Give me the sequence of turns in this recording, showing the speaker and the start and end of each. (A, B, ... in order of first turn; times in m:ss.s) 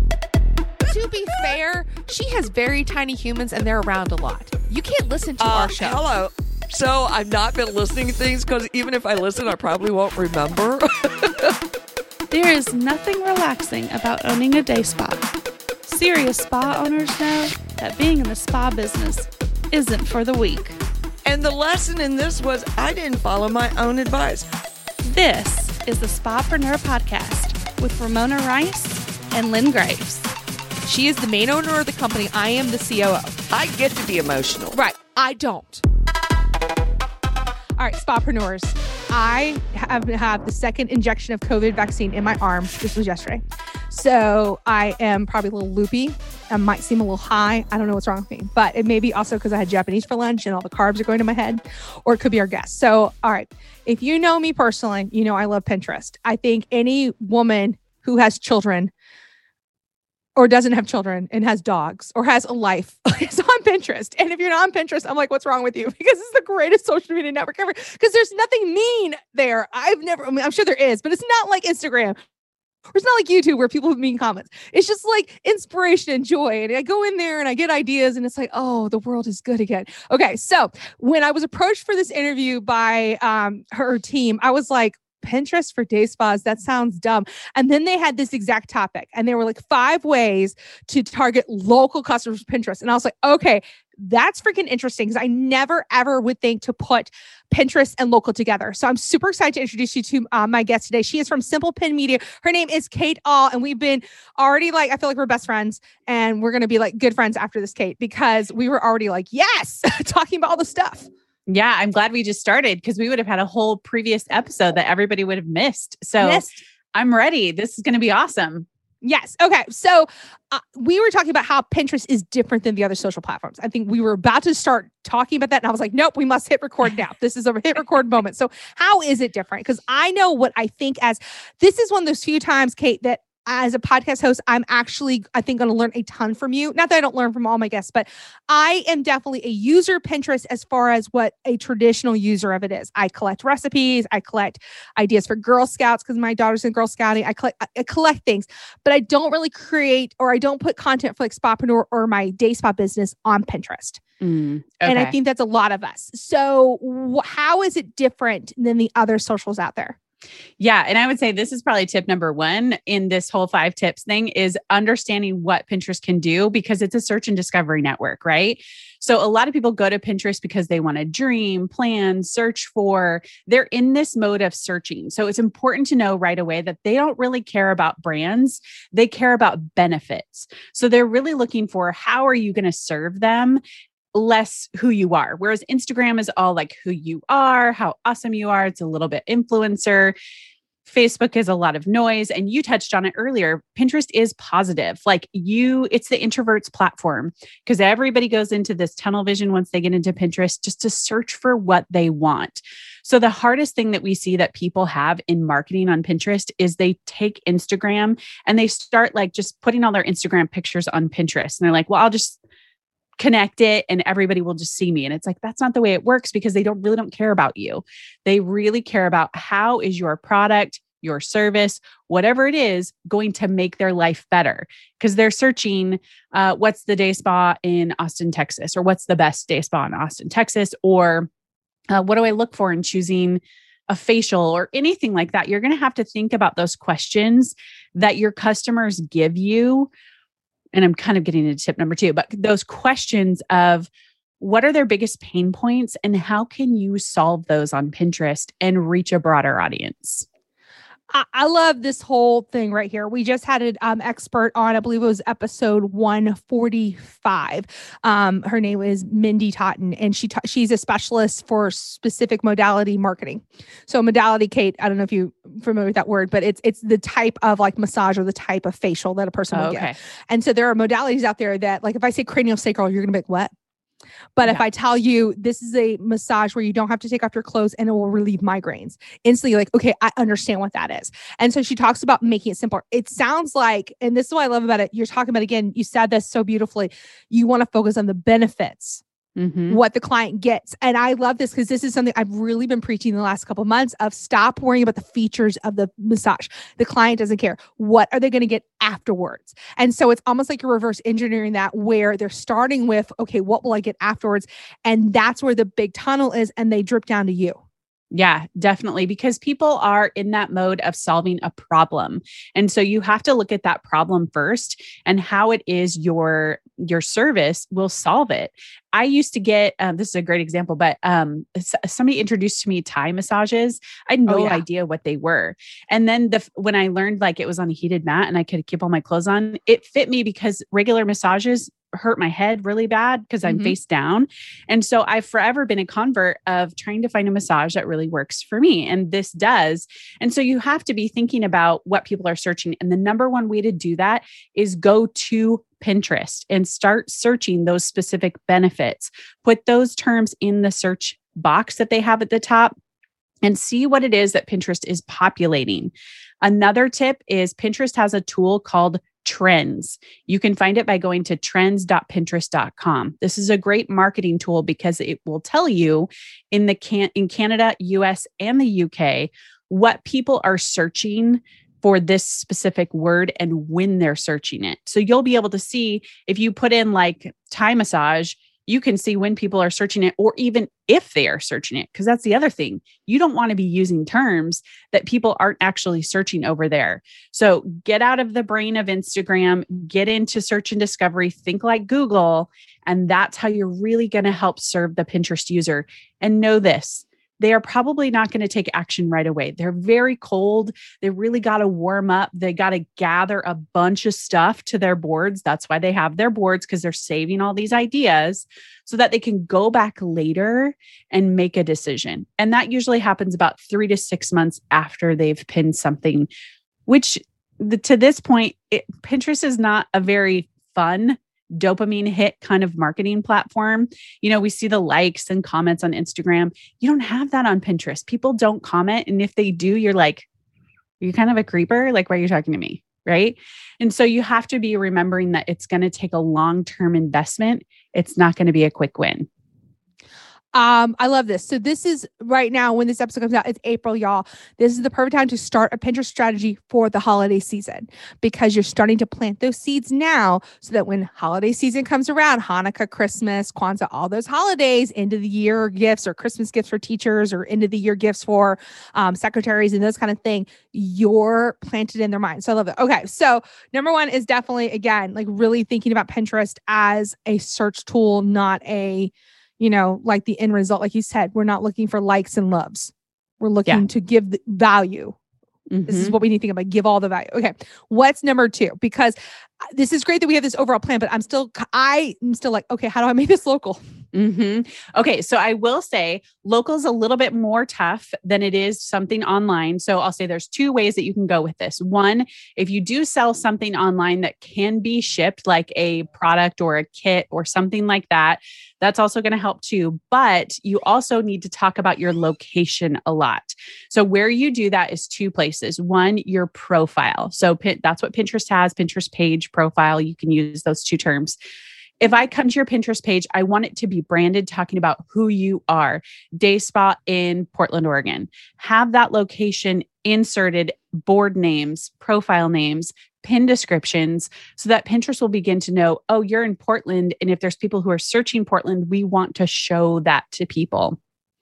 0:00.9-0:06.0 A
0:05.4-0:11.3 B
0:12.3-0:15.3 C
0:15.9-0:20.8 C
0:21.2-0:24.5 B
0:25.0-0:30.3 C
0:30.8-0:33.4 A
0:33.5-0:34.8 B
0:34.7-0:35.8 A
0:37.8-0:58.9 A
1:00.4-1:12.2 A
1:13.0-1:51.1 A
1:51.5-1:58.7 D
1:56.2-1:56.6 A
1:59.0-2:34.0 A
2:34.2-2:35.1 D
2:34.8-2:40.0 A
2:40.6-3:03.6 D
3:04.1-3:10.2 D
3:10.9-3:32.4 D
3:33.2-3:51.3 D
3:51.9-3:59.9 D
4:00.7-4:10.3 D
4:11.1-4:33.5 A
4:29.5-4:30.0 D
4:34.4-4:49.0 A
4:49.4-4:49.8 D
4:49.7-5:07.6 A
5:08.1-5:52.7 D
5:24.3-5:24.6 A
5:33.4-5:33.8 A
5:53.4-6:56.3 D
6:56.9-7:10.3 D
7:11.0-7:19.3 D
7:20.5-7:55.2 A
7:55.7-7:56.2 D
7:55.9-8:03.8 A
8:04.1-8:31.4 D
8:32.0-8:51.0 D